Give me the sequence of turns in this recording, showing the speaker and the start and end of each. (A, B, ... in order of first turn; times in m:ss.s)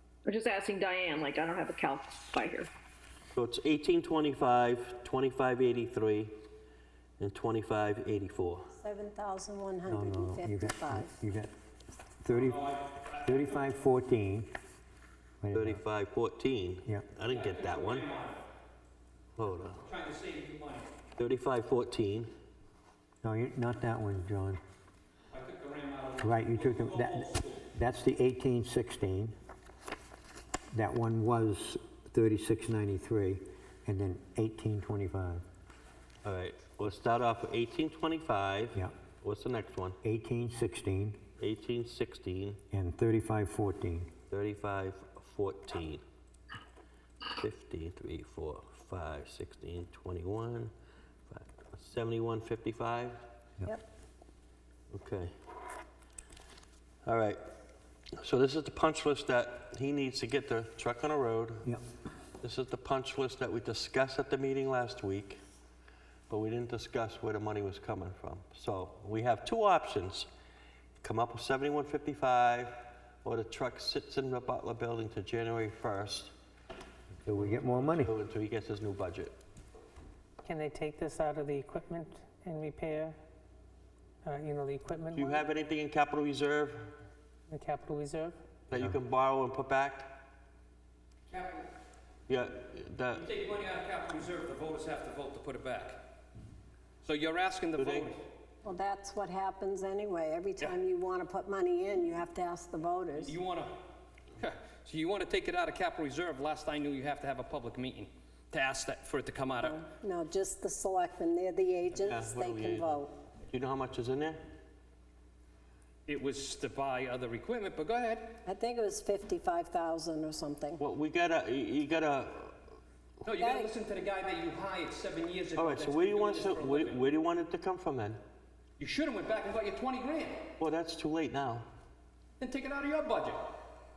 0:00.2-0:02.7 A
0:03.3-0:06.3 B
0:07.2-0:08.7 B
0:08.7-0:11.1 C
0:09.8-0:11.5 D
0:12.2-0:12.6 D
0:12.3-0:13.6 E
0:13.2-0:14.5 D
0:15.4-0:15.8 D
0:15.5-0:18.0 B
0:17.3-0:18.4 E
0:19.4-0:19.8 B
0:19.8-0:20.9 E
0:21.2-0:22.3 B
0:23.2-0:24.6 D
0:25.3-0:27.7 E
0:26.2-0:29.3 D
0:30.7-0:35.4 D
0:36.2-0:40.0 B
0:40.0-0:41.2 D
0:41.4-0:42.6 B
0:42.7-0:44.1 D
0:44.3-0:46.0 B
0:47.3-0:50.7 B
0:51.3-0:53.2 B
0:54.9-0:55.3 B
0:57.0-0:57.4 B
0:58.2-1:01.7 B
1:02.4-1:05.4 B
1:06.3-1:10.3 B
1:11.0-1:16.3 B
1:17.2-1:18.1 D
1:17.4-1:19.4 B
1:20.4-1:23.2 F
1:24.2-1:25.4 F
1:25.1-1:26.9 B
1:27.5-1:28.4 F
1:28.7-1:30.1 B
1:31.3-1:31.7 E
1:32.3-1:33.3 B
1:33.1-1:36.0 E
1:37.0-1:38.2 E
1:37.8-1:38.1 B
1:38.6-1:43.4 C
1:43.2-1:43.8 E
1:44.4-1:49.8 E
1:49.6-1:53.1 C
1:51.9-1:54.4 B
1:56.1-1:58.3 E
1:58.4-2:00.8 C
2:00.8-2:02.6 B
2:03.2-2:07.0 E
2:03.4-2:03.7 C
2:05.6-2:08.2 B
2:08.8-2:10.5 E
2:10.6-2:11.7 B
2:12.4-2:13.5 E